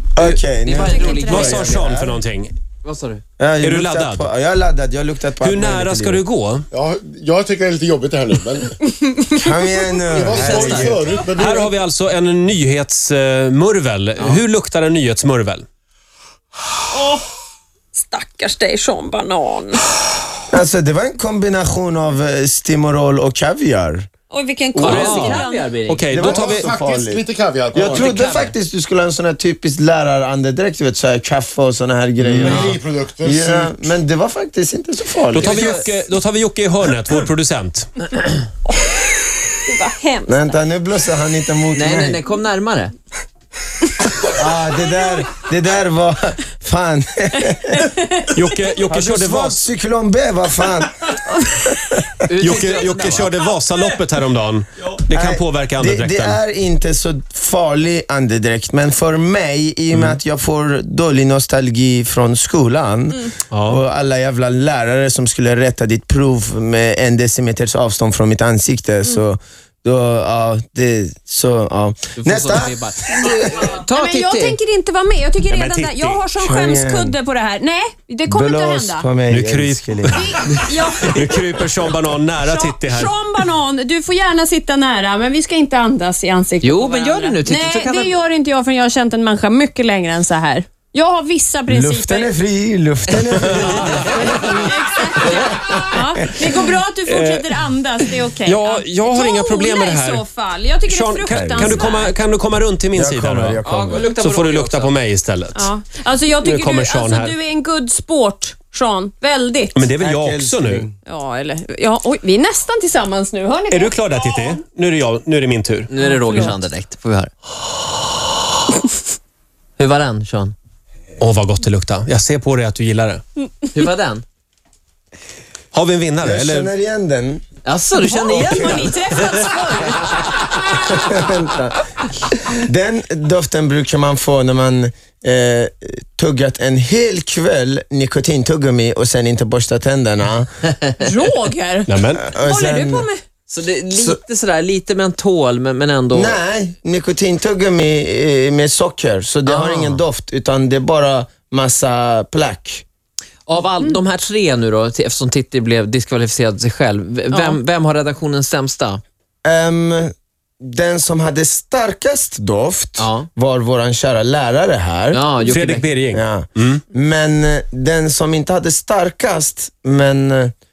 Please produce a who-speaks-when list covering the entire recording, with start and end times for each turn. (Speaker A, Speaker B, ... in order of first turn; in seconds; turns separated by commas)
Speaker A: 0.1-2.2, Speaker B: 0.2-1.8, Speaker C: 0.8-1.6, Speaker D: 1.2-2.5, Speaker B: 2.8-3.2, Speaker A: 3.4-6.2, Speaker D: 3.6-4.3, Speaker D: 5.4-6.7, Speaker E: 6.7-8.7, Speaker C: 9.1-10.2, Speaker A: 9.3-11.2, Speaker E: 10.2-11.8, Speaker B: 10.3-11.0, Speaker D: 11.2-15.7, Speaker C: 16.9-17.3, Speaker C: 18.0-19.8, Speaker A: 20.5-24.1, Speaker C: 24.3-25.7, Speaker A: 24.8-25.1, Speaker B: 24.8-26.1, Speaker D: 24.9-26.7, Speaker A: 26.1-35.8, Speaker E: 26.2-28.2, Speaker B: 27.8-28.5, Speaker B: 32.2-32.8, Speaker E: 32.4-33.7, Speaker D: 35.3-37.9, Speaker B: 35.4-35.9, Speaker C: 39.7-40.6, Speaker A: 40.3-42.2, Speaker B: 41.8-42.9, Speaker A: 44.2-48.1, Speaker C: 48.0-48.2, Speaker D: 48.3-49.6, Speaker A: 48.9-52.1, Speaker B: 52.3-53.3, Speaker D: 52.4-56.4, Speaker A: 55.1-73.8, Speaker D: 63.5-63.8, Speaker B: 72.2-74.6, Speaker C: 74.0-79.1, Speaker D: 75.5-76.3, Speaker A: 76.4-77.2, Speaker A: 78.3-80.5, Speaker D: 79.3-83.4, Speaker C: 80.2-81.5, Speaker C: 82.4-92.3, Speaker B: 86.6-88.2, Speaker A: 91.7-94.7, Speaker B: 93.2-94.0, Speaker D: 93.7-94.0, Speaker C: 94.4-102.2, Speaker A: 95.3-95.7, Speaker D: 97.0-100.3, Speaker D: 100.9-105.7, Speaker A: 101.3-101.9, Speaker A: 102.9-104.1, Speaker B: 103.6-105.0, Speaker C: 105.6-109.7, Speaker D: 106.4-107.4, Speaker D: 109.8-110.9, Speaker A: 110.0-111.0, Speaker C: 111.1-114.5, Speaker D: 113.7-115.9, Speaker B: 115.9-117.3, Speaker C: 116.0-116.6, Speaker B: 119.8-120.5, Speaker D: 121.2-123.2, Speaker B: 123.7-124.2, Speaker D: 125.7-126.7, Speaker A: 126.2-127.4, Speaker B: 127.7-129.0, Speaker C: 128.0-129.9, Speaker A: 128.2-129.1, Speaker D: 129.2-129.5, Speaker A: 130.7-140.5, Speaker B: 140.8-141.2, Speaker C: 141.1-143.2, Speaker D: 141.9-142.3, Speaker A: 142.2-143.1, Speaker B: 143.5-146.4, Speaker A: 143.9-144.2, Speaker A: 146.1-152.8, Speaker B: 149.5-150.0, Speaker B: 153.5-159.0, Speaker C: 157.3-157.6, Speaker A: 159.4-165.3, Speaker B: 163.0-163.3, Speaker B: 165.1-165.9, Speaker D: 165.4-166.8, Speaker A: 166.1-170.5